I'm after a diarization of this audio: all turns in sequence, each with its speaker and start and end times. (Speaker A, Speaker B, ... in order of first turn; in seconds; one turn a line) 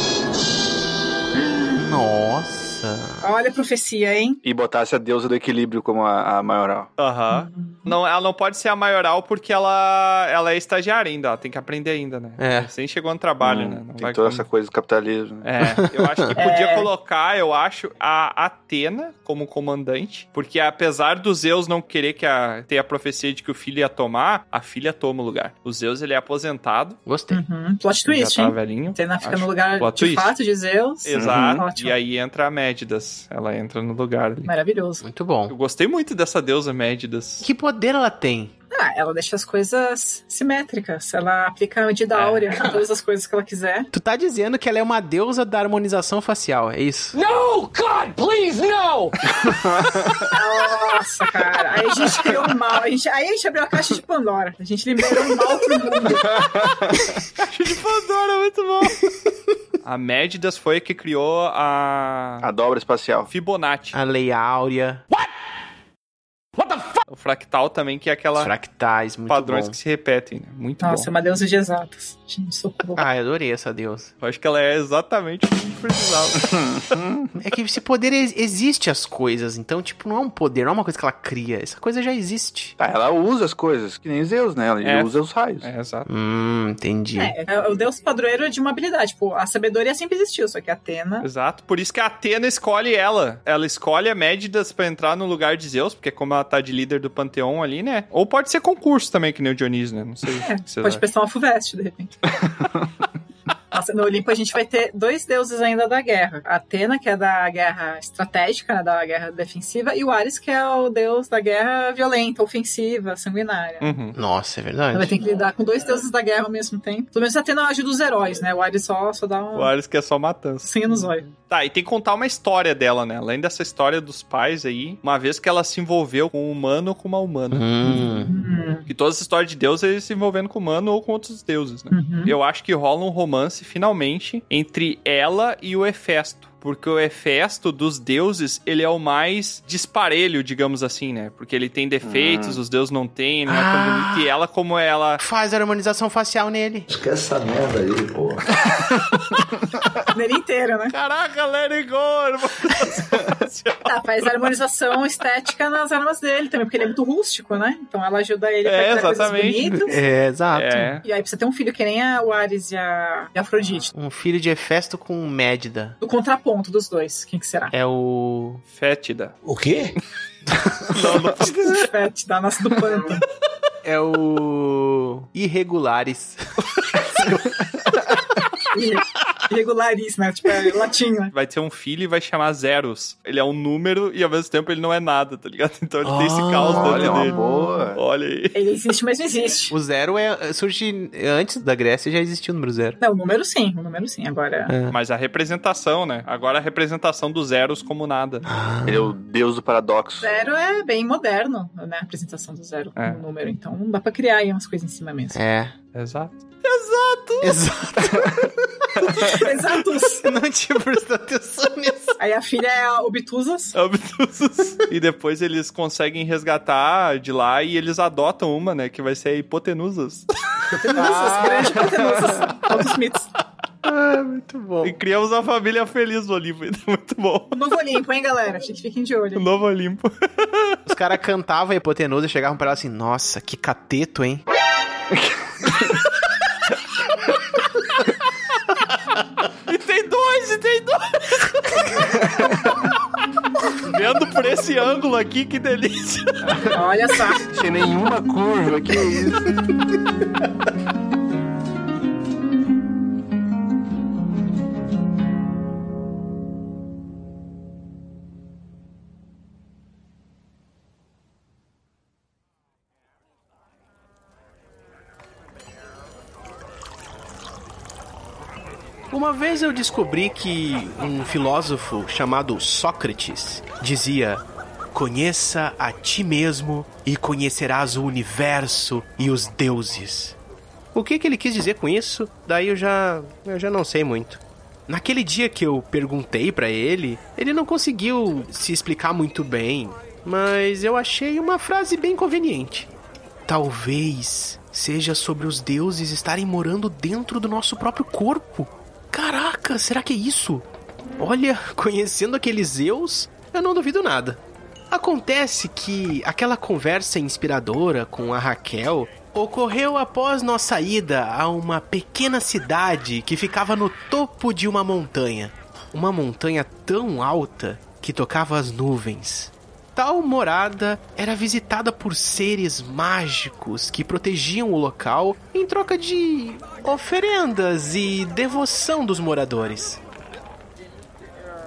Speaker A: 1.7-3.2
Speaker B: 3.2-4.4
Speaker C: 4.4-6.9
Speaker D: 7.0-14.4
Speaker B: 7.3-7.9
Speaker A: 12.4-12.7
Speaker C: 13.4-15.5
Speaker D: 15.4-27.0
Speaker A: 15.6-16.3
Speaker B: 16.4-16.9
Speaker A: 27.1-27.4
Speaker B: 27.3-32.0
Speaker D: 28.1-30.3
Speaker D: 31.0-34.5
Speaker C: 31.1-31.6
Speaker B: 34.5-35.0
Speaker A: 35.0-35.5
Speaker D: 35.5-37.5
Speaker A: 37.4-38.5
Speaker B: 38.7-43.9
Speaker D: 42.1-42.7
Speaker A: 43.9-47.2
Speaker E: 47.1-49.1
Speaker C: 49.4-50.2
Speaker B: 50.3-56.4
Speaker C: 56.3-57.0
Speaker D: 57.4-59.0
Speaker D: 59.8-62.5
Speaker C: 62.4-63.3
Speaker D: 63.3-64.0
Speaker A: 63.9-65.0
Speaker D: 67.1-68.5
Speaker A: 68.3-69.8
Speaker D: 69.3-71.1
Speaker B: 70.8-73.0
Speaker A: 73.0-74.1
Speaker D: 74.2-76.5
Speaker C: 76.5-77.2
Speaker A: 77.3-82.8
Speaker C: 82.8-85.7
Speaker D: 84.8-86.1
Speaker A: 86.1-87.3
Speaker B: 87.2-91.3
Speaker D: 91.2-101.0
Speaker B: 100.4-102.1
Speaker B: 103.7-114.0
Speaker D: 113.8-114.2
Speaker A: 114.1-115.1
Speaker B: 114.9-119.7
Speaker D: 119.5-120.7
Speaker B: 120.6-121.3
Speaker D: 121.5-127.7
Speaker A: 127.5-128.3
Speaker B: 127.8-128.9
Speaker D: 128.9-145.2
Speaker B: 131.9-132.3
Speaker C: 142.0-142.6
Speaker A: 143.5-144.3
Speaker A: 145.2-146.9
Speaker F: 146.9-148.4
Speaker B: 150.1-150.9
Speaker D: 150.9-154.4
Speaker B: 153.8-160.0
Speaker D: 158.6-159.8
Speaker A: 159.6-160.9
Speaker D: 160.5-161.0
Speaker B: 161.0-163.9
Speaker A: 163.9-166.0
Speaker B: 166.0-167.7
Speaker A: 167.7-168.6
Speaker D: 168.7-169.3
Speaker F: 169.4-169.9
Speaker D: 170.9-171.9
Speaker B: 171.7-173.2
Speaker A: 173.8-177.7
Speaker B: 178.7-181.3
Speaker D: 181.3-187.4
Speaker A: 186.0-187.7
Speaker C: 186.7-188.0
Speaker D: 187.9-188.6
Speaker B: 188.5-189.7
Speaker A: 189.7-193.0
Speaker B: 193.0-194.7
Speaker A: 194.7-195.0
Speaker D: 194.9-198.5
Speaker A: 198.4-199.1
Speaker C: 198.8-200.3
Speaker B: 200.2-205.4
Speaker D: 203.0-203.2
Speaker A: 205.3-205.8
Speaker D: 205.9-207.6
Speaker A: 207.4-208.9
Speaker B: 209.2-210.3
Speaker A: 210.2-212.2
Speaker B: 212.2-213.8
Speaker D: 213.8-220.3
Speaker B: 220.8-223.3
Speaker C: 220.9-222.3
Speaker A: 223.8-225.0
Speaker D: 224.8-227.5
Speaker B: 227.5-229.4
Speaker D: 229.3-230.8
Speaker A: 230.8-234.4
Speaker D: 239.7-241.9
Speaker D: 243.8-246.5
Speaker B: 246.7-247.4
Speaker C: 247.4-249.5
Speaker A: 269.1-280.4
Speaker A: 280.9-292.9
Speaker A: 293.4-300.6
Speaker A: 301.2-330.0